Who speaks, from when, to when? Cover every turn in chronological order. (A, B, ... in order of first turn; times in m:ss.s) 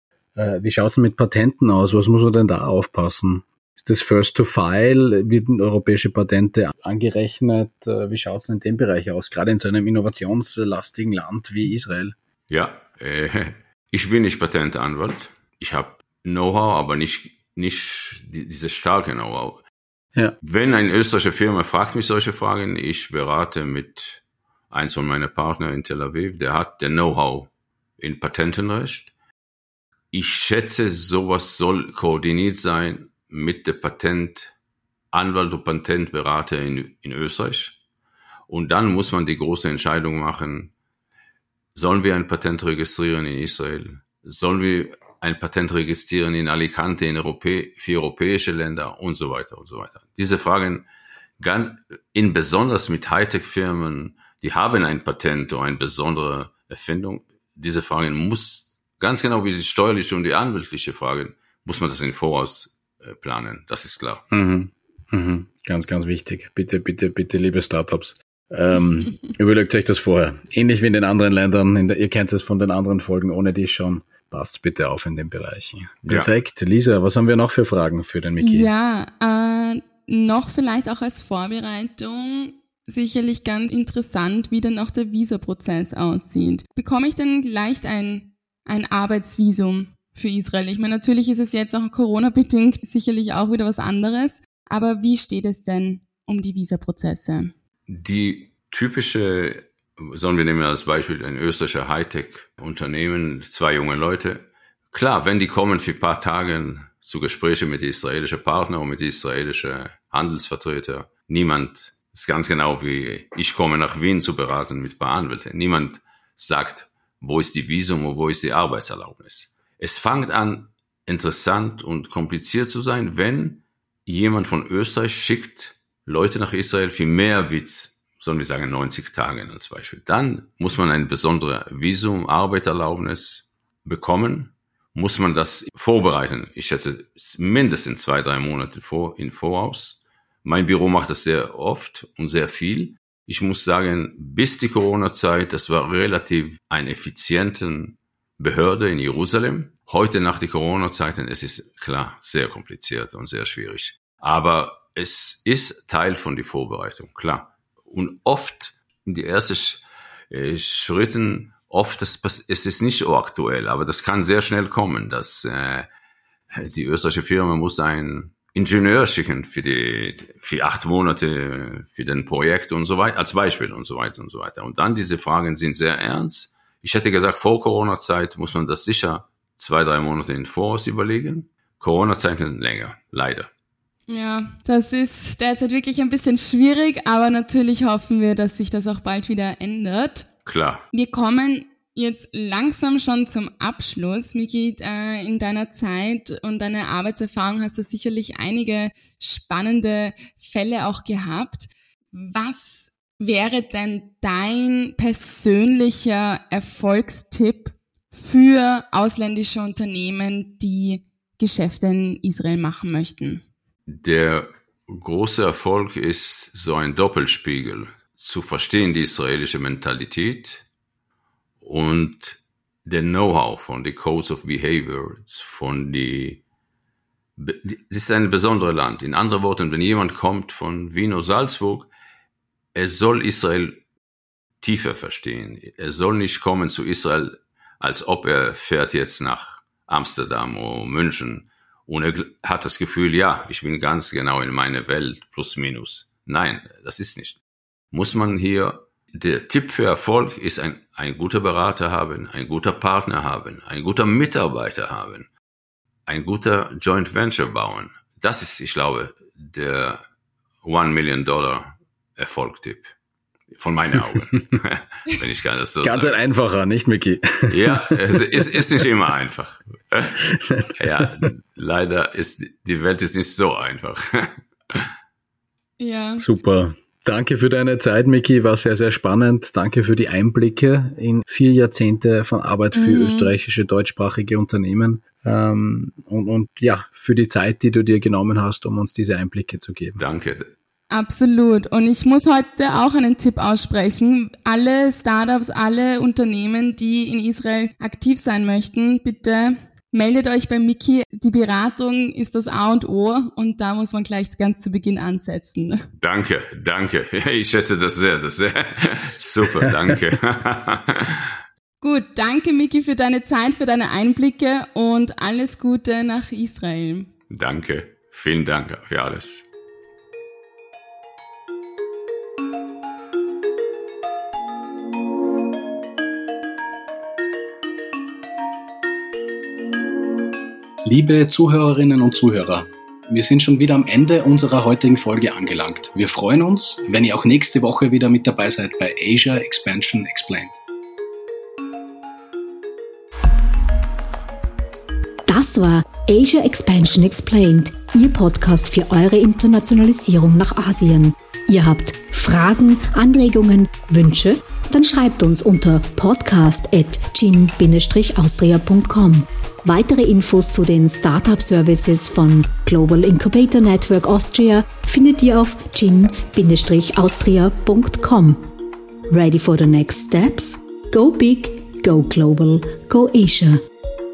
0:00.4-0:12.2 A
0:12.5-0:19.6 B
0:20.4-0:29.1 B
0:30.1-0:34.5 B
0:35.1-0:37.8 B
0:38.5-0:40.7 B
0:41.7-0:50.8 B
0:51.4-1:04.2 B
1:04.3-1:18.7 A
1:16.0-1:16.3 B
1:18.4-1:37.5 C
1:37.9-2:45.9 B
2:46.5-3:03.5 B
3:04.1-3:10.3 C
3:10.4-3:10.8 B
3:10.9-3:33.4 C
3:33.9-3:40.6 B
3:41.6-3:46.4 B
3:47.4-3:51.9 B
3:52.7-3:53.8 B
3:54.6-4:07.4 B
4:07.9-4:15.3 B
4:16.1-4:20.0 B
4:20.6-4:22.9 B
4:23.5-4:26.2 B
4:25.8-4:28.6 A
4:27.5-4:34.9 B
4:30.3-4:31.3 A
4:35.8-4:36.3 C
4:36.2-4:50.0 A
4:42.7-4:43.3 C
4:50.0-4:50.5 B
4:50.9-5:05.8 C
5:06.0-5:11.3 B
5:09.6-5:10.0 A
5:11.8-5:17.1 C
5:17.3-5:19.4 B
5:30.8-5:40.6 A
5:45.3-6:08.4 D
6:09.1-6:13.6 D